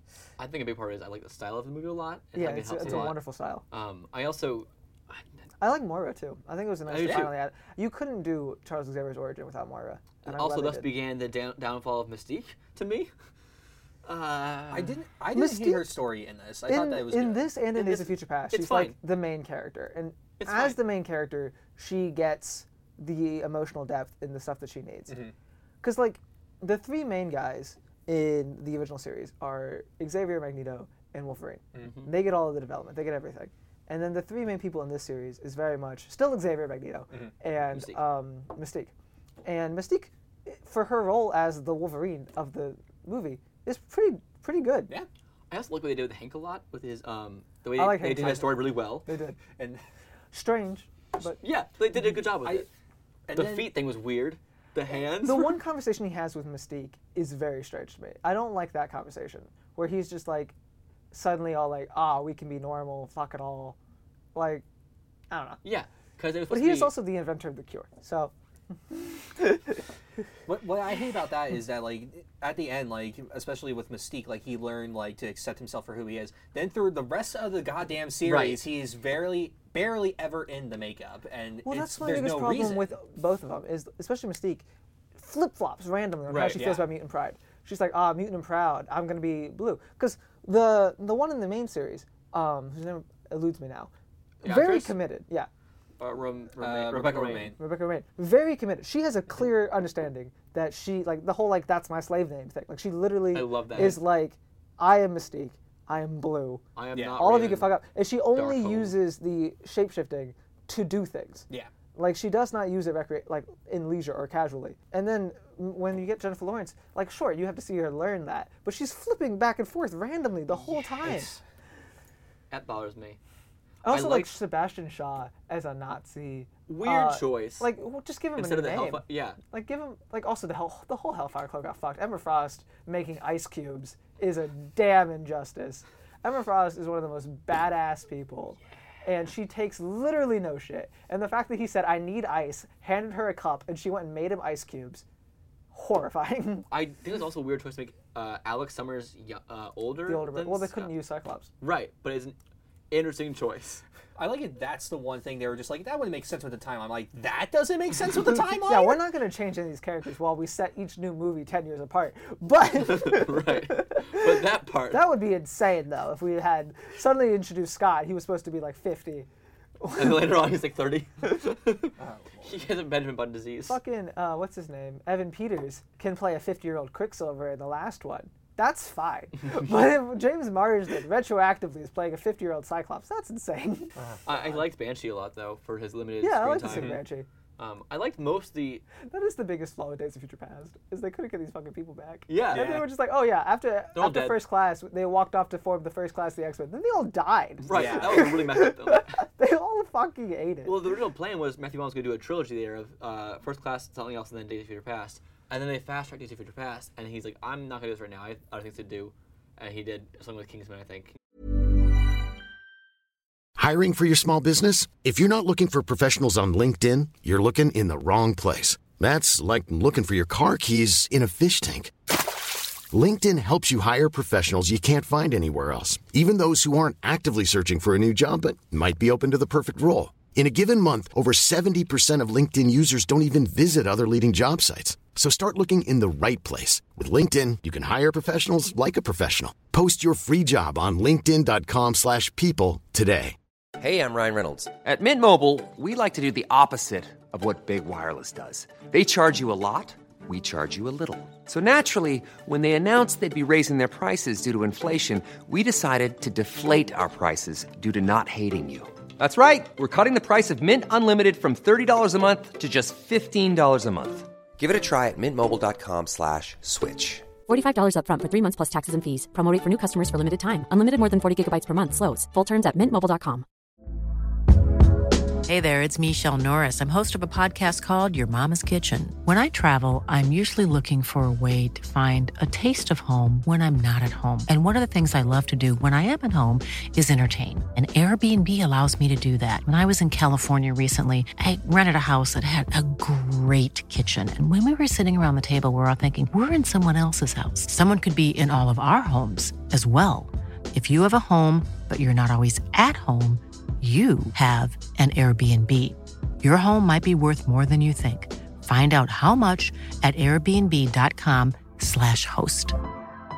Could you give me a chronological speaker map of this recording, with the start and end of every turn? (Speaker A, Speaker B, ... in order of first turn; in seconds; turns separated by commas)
Speaker A: 0.4-3.2, Speaker B: 2.3-3.6, Speaker C: 2.8-3.1, Speaker A: 3.7-5.2, Speaker B: 5.6-10.9, Speaker A: 6.9-7.3, Speaker A: 10.3-13.1, Speaker A: 14.1-14.9, Speaker C: 14.7-17.4, Speaker B: 15.3-15.9, Speaker B: 16.7-25.2, Speaker A: 17.8-18.9, Speaker A: 20.4-20.8, Speaker B: 25.8-38.9, Speaker B: 39.5-44.9, Speaker A: 45.5-49.0, Speaker B: 47.7-49.4, Speaker C: 49.4-49.8, Speaker B: 50.3-51.4, Speaker A: 51.4-52.7, Speaker C: 53.3-53.7, Speaker A: 53.3-55.6, Speaker B: 55.2-60.5, Speaker B: 61.1-63.8, Speaker B: 64.3-64.6, Speaker B: 65.3-65.6, Speaker A: 65.6-66.9, Speaker B: 66.5-68.3, Speaker B: 68.9-69.8, Speaker C: 70.5-82.9, Speaker A: 78.2-78.6, Speaker B: 81.6-93.9, Speaker A: 86.3-86.6, Speaker C: 86.5-86.8, Speaker A: 94.4-95.0, Speaker B: 94.4-95.5, Speaker A: 96.0-97.5, Speaker C: 96.6-97.6, Speaker B: 97.6-121.3, Speaker A: 103.3-104.0, Speaker A: 106.8-107.7, Speaker C: 107.0-107.4, Speaker A: 108.3-109.0, Speaker C: 120.6-121.4, Speaker A: 122.5-123.2, Speaker B: 123.8-145.0, Speaker A: 123.9-124.3, Speaker A: 126.7-127.7, Speaker A: 128.4-129.4, Speaker B: 145.7-146.7, Speaker A: 146.7-150.9, Speaker B: 150.1-151.5, Speaker A: 151.6-152.4, Speaker A: 152.9-153.8, Speaker C: 154.2-159.0, Speaker B: 158.5-169.3, Speaker A: 162.7-165.0, Speaker B: 169.8-170.3, Speaker A: 169.9-171.9, Speaker C: 172.0-172.7, Speaker A: 172.4-173.8, Speaker B: 173.7-183.9, Speaker C: 183.9-184.6, Speaker A: 184.3-186.9, Speaker B: 186.2-187.3, Speaker C: 186.7-187.0, Speaker A: 187.6-188.8, Speaker B: 189.0-200.8, Speaker A: 192.3-192.9, Speaker C: 192.5-192.9, Speaker A: 193.9-194.4, Speaker A: 197.7-199.2, Speaker C: 197.7-198.3, Speaker A: 200.6-211.1, Speaker D: 213.6-221.9, Speaker D: 222.9-243.4, Speaker E: 243.8-267.2, Speaker F: 267.5-273.4, Speaker G: 275.4-312.7